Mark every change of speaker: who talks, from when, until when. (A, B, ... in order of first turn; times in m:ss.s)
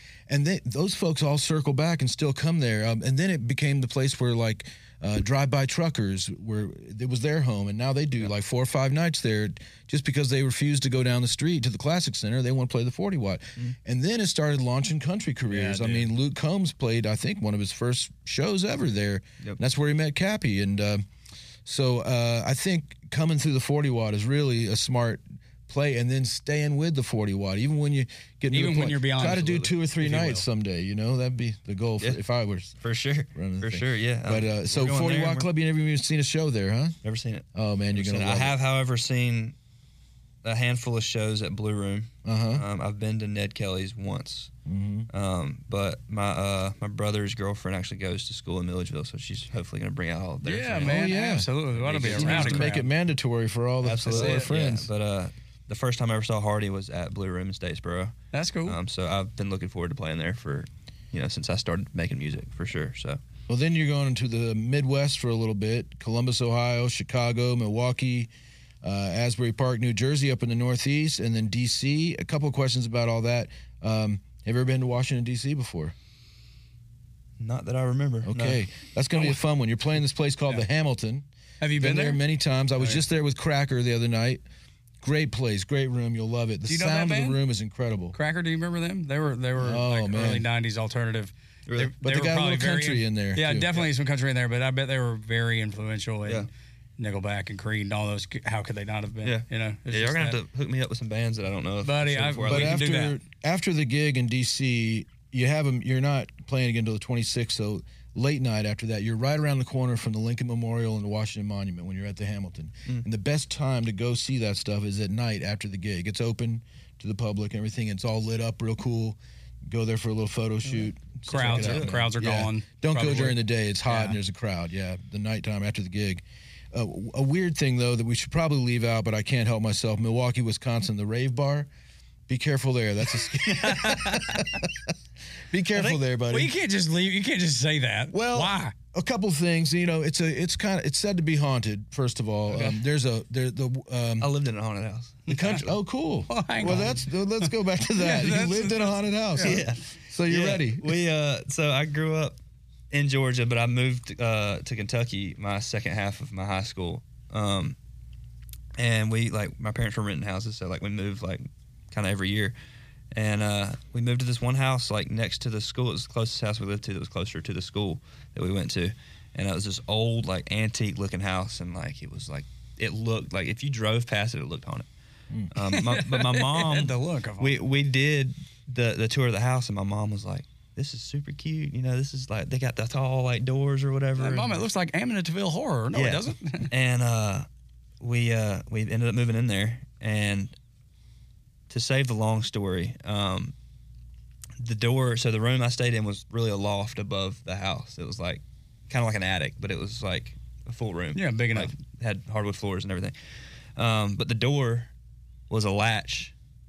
0:00.3-0:21.0 A
0:15.5-0:16.1 B
0:21.7-0:32.8 A
0:28.5-0:30.4 B
0:32.8-0:35.5 C
0:33.4-0:37.0 A
0:37.0-0:39.6 C
0:37.6-0:38.6 A
0:40.4-0:44.5 C
0:42.2-0:42.6 A
0:44.7-0:45.1 A
0:45.1-0:51.0 C
0:50.4-0:52.9 B
0:50.8-0:51.5 A
0:51.7-0:52.8 C
0:52.0-0:54.9 A
0:53.8-0:58.2 C
0:54.1-0:54.5 B
0:58.3-0:58.8 B
0:58.7-1:03.2 C
1:03.5-1:08.3 A
1:08.8-1:15.9 A
1:17.4-1:18.6 C
1:18.2-1:21.3 A
1:21.6-1:22.2 B
1:21.8-1:24.4 A
1:25.0-1:28.2 A
1:26.7-1:27.4 B
1:28.1-1:40.4 B
1:29.6-1:30.4 A
1:31.7-1:31.9 C
1:32.0-1:33.7 A
1:39.2-1:42.8 C
1:41.8-1:43.2 B
1:42.4-2:11.7 A
2:00.7-2:01.9 C
2:01.3-2:04.2 B
2:12.3-2:14.5 A
2:13.7-2:14.4 C
2:15.5-2:16.5 A
2:16.3-2:18.7 B
2:18.1-2:24.3 A
2:24.2-2:25.3 C
2:25.3-2:31.0 A
2:25.3-2:25.6 B
2:26.3-2:29.6 B
2:29.4-2:32.4 C
2:32.9-2:37.8 C
2:38.8-2:42.6 C
2:43.1-2:54.9 C
2:55.5-3:04.6 C
2:55.6-2:57.6 B
3:04.2-3:06.7 B
3:05.9-3:07.5 C
3:08.0-3:10.6 C
3:11.7-3:13.5 C
3:14.6-3:23.2 C
3:21.1-3:21.7 B
3:23.8-3:24.9 C
3:25.5-3:26.3 C